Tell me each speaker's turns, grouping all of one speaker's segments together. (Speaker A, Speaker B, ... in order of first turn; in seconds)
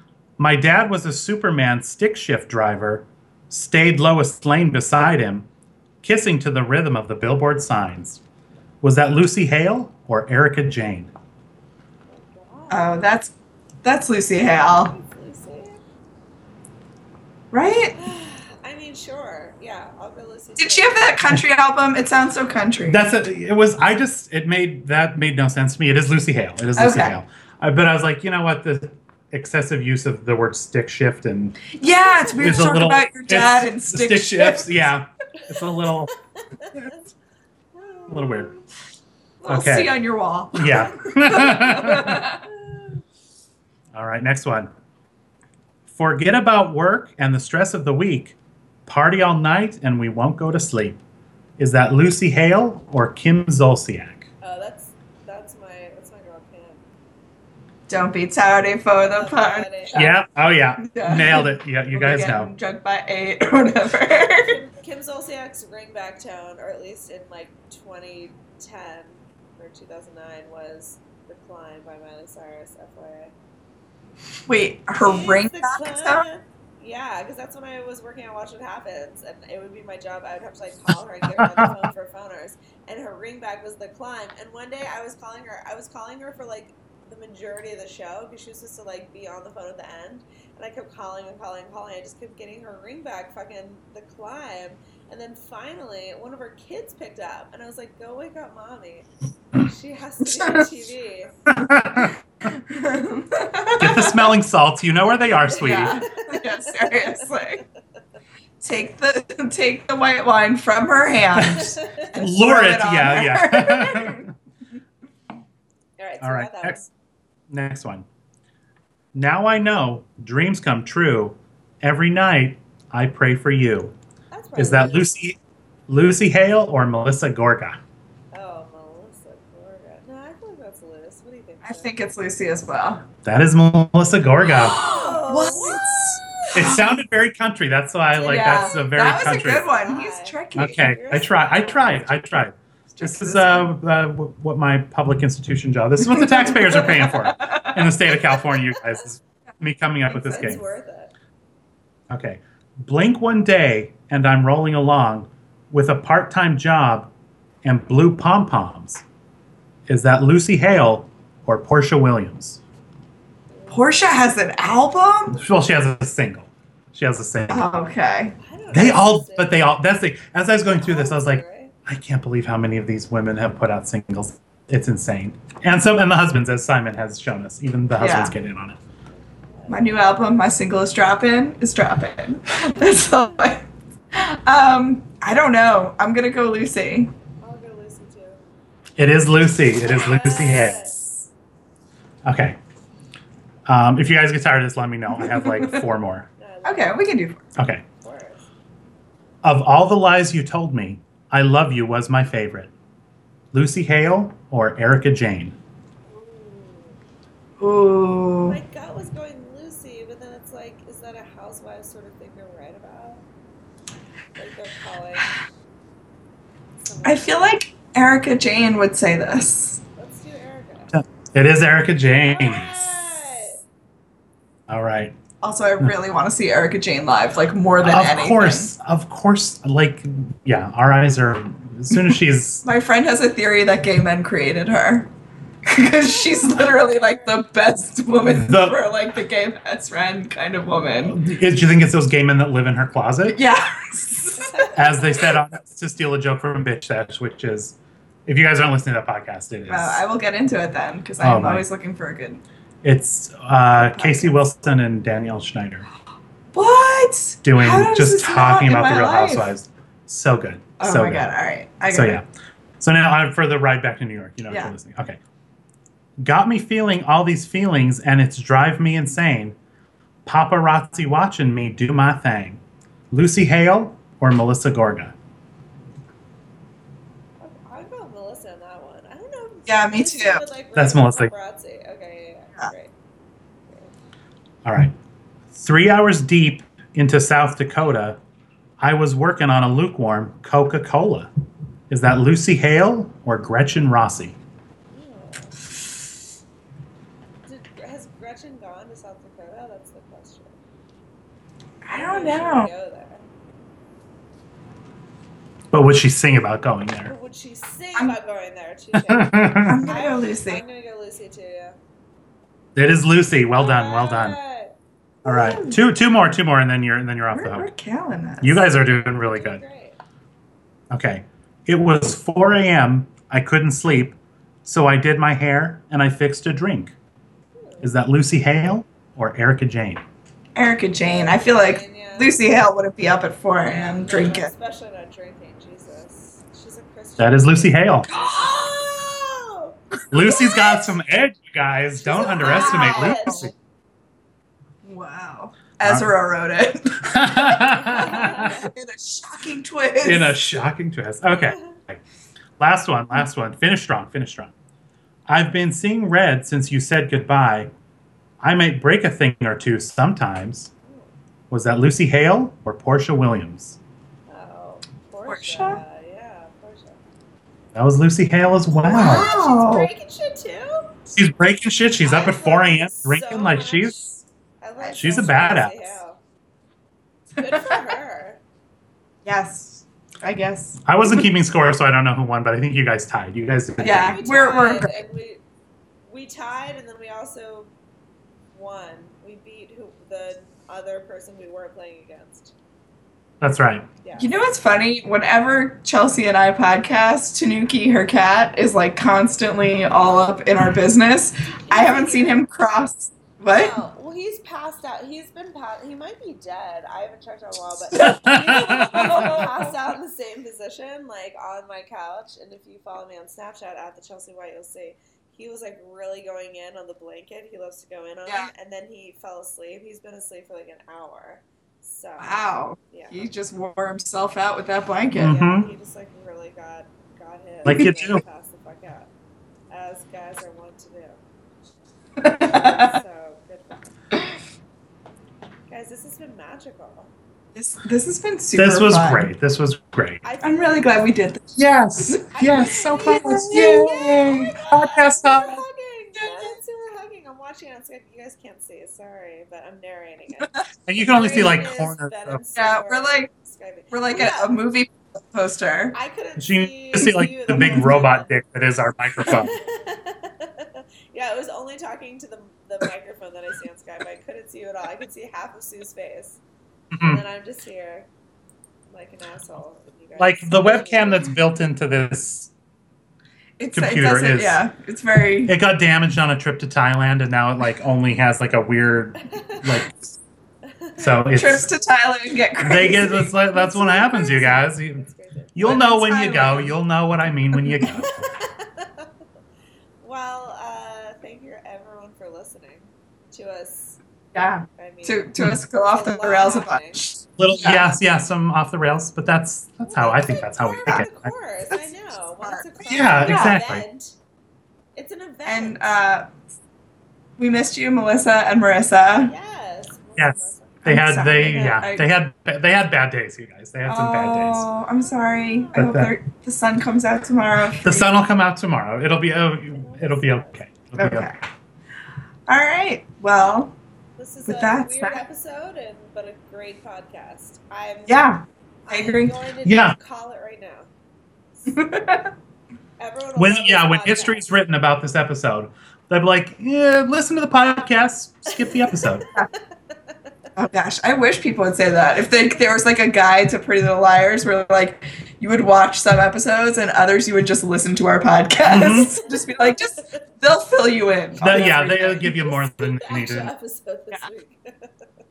Speaker A: 0.4-5.5, 6.0-8.2, 8.8-11.1, 22.9-31.8, 32.4-36.1, 38.1-38.5, 39.5-39.9, 40.5-42.2, 43.9-44.7, 45.9-51.0, 51.6-54.3, 59.9-62.5, 81.4-81.7, 101.5-102.1, 103.8-106.0, 111.4-114.3, 116.2-116.9, 117.5-118.0, 119.1-123.9, 124.5-125.4, 125.9-127.8, 133.2-134.8, 136.5-139.7, 140.5-150.6, 152.1-157.1, 157.6-159.0, 159.9-162.6, 165.3-167.6, 168.7-178.8, 189.0-191.1, 192.2-192.6, 193.7-196.3, 197.6-197.8, 199.4-202.7, 203.5-205.6, 220.9-222.8, 224.7-225.1, 227.8-232.6, 238.3-238.8, 241.0-243.4, 244.7-250.0, 251.2-251.6, 252.8-255.8, 257.4-261.3, 261.9-262.2, 262.8-265.2, 266.2-269.6, 270.2-275.1, 280.8-281.3, 284.6-284.9, 285.5-288.2, 288.8-291.3, 291.9-294.4, 305.7-307.1, 308.9-309.9, 312.7-314.4, 315.2-317.7, 318.4-319.6, 320.9-326.9, 327.8-330.0, 337.2-338.1, 340.1-343.5, 345.8-346.1, 347.0-348.6, 350.0-352.0, 352.6-354.5, 355.3-357.7, 358.4-360.7, 361.5-363.8, 367.7-369.2, 371.1-374.1, 374.9-376.0, 380.8-384.2, 393.4-393.9, 408.1-409.2, 425.1-425.7, 427.6-428.2, 438.6-440.2, 441.6-445.6, 450.9-452.4, 456.4-459.6, 466.9-467.2, 470.2-472.5, 473.7-474.6, 475.4-480.1, 481.0-481.7, 482.6-488.2, 497.4-501.3, 502.8-503.8, 510.2-514.7, 515.7-516.1, 517.8-521.3, 529.6-530.0, 533.4-539.2, 548.6-549.1, 551.4-553.5
Speaker B: 12.1-13.1, 14.4-15.8, 17.9-21.1, 31.9-32.4, 36.6-37.0, 37.8-38.4, 42.5-43.0, 54.4-56.8, 59.0-60.0, 64.4-73.3, 75.0-99.1, 99.6-101.4, 105.8-107.3, 116.0-116.8, 124.3-125.1, 128.3-131.9, 134.4-136.7, 138.1-142.2, 150.1-151.1, 163.5-164.7, 168.4-169.6, 170.8-171.7, 179.1-179.8, 183.2-183.4, 187.4-188.4, 189.8-191.0, 196.4-197.1, 198.0-198.4, 206.1-207.0, 208.4-213.2, 214.3-215.3, 216.8-217.4, 219.9-220.9, 222.2-223.6, 236.0-237.4, 277.4-282.9, 283.7-283.9, 294.9-295.5, 297.4-300.6, 301.9-303.2, 307.0-311.8, 313.6-314.8, 318.6-320.0, 327.5-327.9, 331.0-332.4, 333.6-340.8, 342.0-343.5, 347.9-348.6, 351.3-351.8, 360.8-361.1, 364.3-367.0, 368.9-371.1, 372.0-376.2, 377.4-378.4, 383.8-385.4, 386.0-387.7, 388.5-392.5, 394.0-394.4, 400.0-400.4, 401.6-402.4, 403.5-423.4, 425.2-429.1, 429.7-431.2, 432.2-433.9, 435.7-437.1, 440.2-440.9, 442.3-454.6, 455.9-458.3, 459.3-466.4, 467.0-468.1, 468.9-471.3, 479.3-479.8, 480.7-481.2, 483.5-485.6, 488.1-489.1, 490.0-494.0, 494.8-495.3, 495.8-497.0, 499.9-504.1, 504.9-505.9, 509.2-512.0, 515.0-515.9, 519.7-520.6, 524.2-528.3, 528.8-530.9, 533.0-534.4, 538.5-539.1, 549.3-550.2, 552.1-554.9
Speaker C: 12.7-13.3, 13.8-14.9, 17.5-17.9, 20.6-23.0, 26.8-27.2, 31.7-34.7, 39.4-42.4, 57.9-60.1, 60.8-64.5, 74.5-76.2, 100.2-100.7, 102.4-104.3, 105.6-107.6, 108.6-114.2, 131.6-133.0, 134.5-136.8, 138.2-141.0, 142.9-143.7, 146.0-147.8, 163.7-165.4, 167.5-168.3, 178.0-178.3, 179.7-187.1, 195.2-195.8, 196.6-197.4, 207.6-208.6, 217.0-219.8, 225.4-228.7, 232.6-235.1, 235.7-241.2, 243.3-244.7, 249.7-252.4, 253.8-254.4, 256.5-259.5, 260.8-262.2, 264.5-264.7, 279.7-280.4, 301.8-302.7, 309.6-310.6, 315.2-315.8, 317.3-318.6, 330.5-334.5, 338.1-338.7, 342.1-343.5, 344.8-350.4, 365.2-365.8, 368.9-369.9, 377.5-377.8, 379.2-381.3, 383.8-384.9, 394.1-403.8, 408.6-409.7, 422.2-425.4, 427.6-427.9, 432.2-433.0, 437.5-439.3, 440.4-441.4, 442.0-444.0, 446.1-446.5, 452.6-453.3, 453.9-455.9, 457.6-457.9, 473.6-475.5, 481.3-483.3, 485.6-486.7, 487.5-487.9, 494.3-497.8, 502.4-502.6, 503.2-503.6, 505.4-506.3, 507.4-509.3, 510.9-512.1, 513.9-518.1, 521.0-521.4, 522.5-523.8, 524.5-525.2, 528.1-529.4, 531.7-532.3, 540.5-552.3